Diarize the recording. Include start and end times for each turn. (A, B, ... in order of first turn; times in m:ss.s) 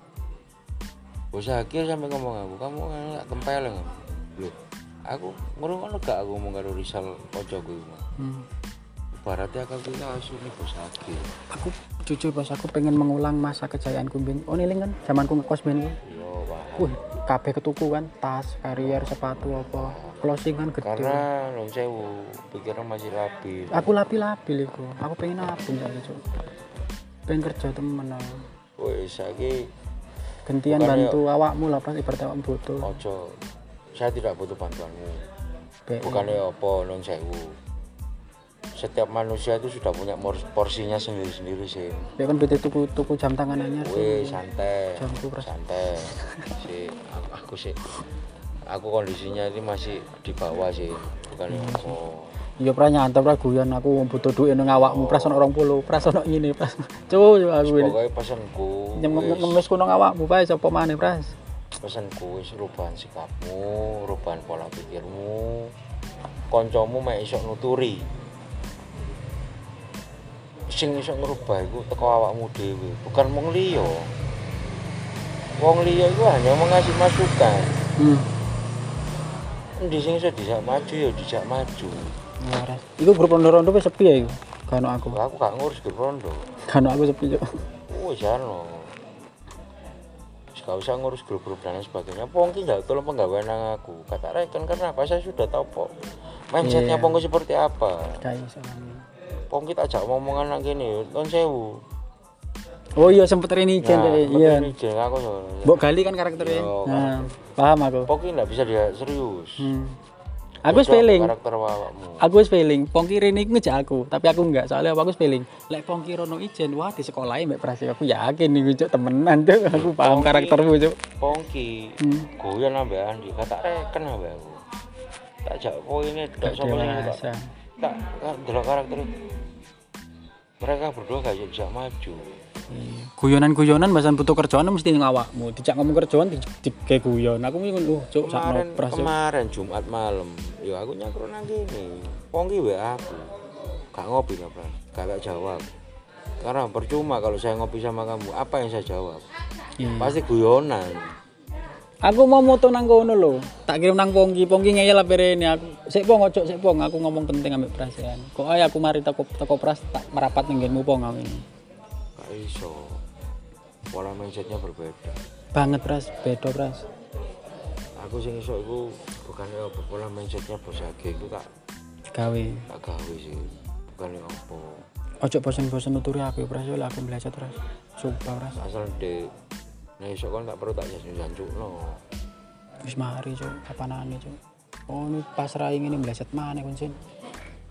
0:01.3-0:08.1 A
0:08.2-0:08.5 B
0:09.1-0:11.3 A
0:11.5-0:16.0 B
0:16.0-0:17.0 A
0:16.8-0:21.2 B
0:18.8-0:20.2 A
0:20.8-0:23.9 A
0:23.7-0:26.2 B
0:27.3-0:28.4 B
0:28.8-0:29.7 A
0:30.4-0:32.9 B
0:30.6-0:31.2 A
0:32.8-0:33.4 A
0:33.9-0:35.2 A
0:35.9-0:36.4 B
0:36.0-0:37.6 A
0:38.8-0:42.1 A
0:42.2-0:44.4 B
0:43.8-0:47.9 A
0:45.0-0:45.5 B
0:46.2-0:46.5 B
0:48.7-0:52.3 A
0:51.5-0:52.0 B
0:52.6-0:57.9 B
0:54.6-0:55.5 A
0:57.6-0:59.6 A
0:59.0-1:01.3 B
1:01.8-1:05.7 A
1:06.5-1:08.1 A
1:10.7-1:14.1 A
1:15.6-1:17.8 A
1:18.0-1:18.3 B
1:19.8-1:22.2 A
1:22.4-1:25.2 B
1:25.1-1:26.4 A
1:26.7-1:27.6 B
1:27.9-1:28.9 A
1:30.5-1:35.9 A
1:36.5-1:38.2 A
1:36.6-1:37.2 B
1:38.2-1:39.0 B
1:39.5-1:41.8 A
1:43.0-1:44.7 B
1:43.8-1:47.3 A
1:45.6-1:48.1 B
1:48.0-1:49.7 A
1:49.6-1:50.0 B
1:50.6-1:51.3 B
1:50.7-1:52.2 A
1:52.2-2:01.0 B
1:59.7-2:04.6 A
2:02.0-2:02.3 B
2:05.4-2:07.2 A
2:06.4-2:07.5 B
2:07.8-2:09.2 A
2:10.6-2:12.2 A
2:12.7-2:19.1 B
2:18.2-2:23.4 A
2:23.9-2:25.8 A
2:26.4-2:29.3 A
2:29.8-2:30.2 B
2:30.0-2:31.1 A
2:32.0-2:41.4 B
2:42.2-2:43.0 A
2:43.9-2:45.2 A
2:45.5-2:46.9 B
2:48.0-2:51.5 A
2:52.1-2:52.7 B
2:52.7-2:54.8 A
2:55.2-2:58.6 B
2:58.6-2:59.3 A
3:00.0-3:02.0 A
3:02.8-3:07.0 B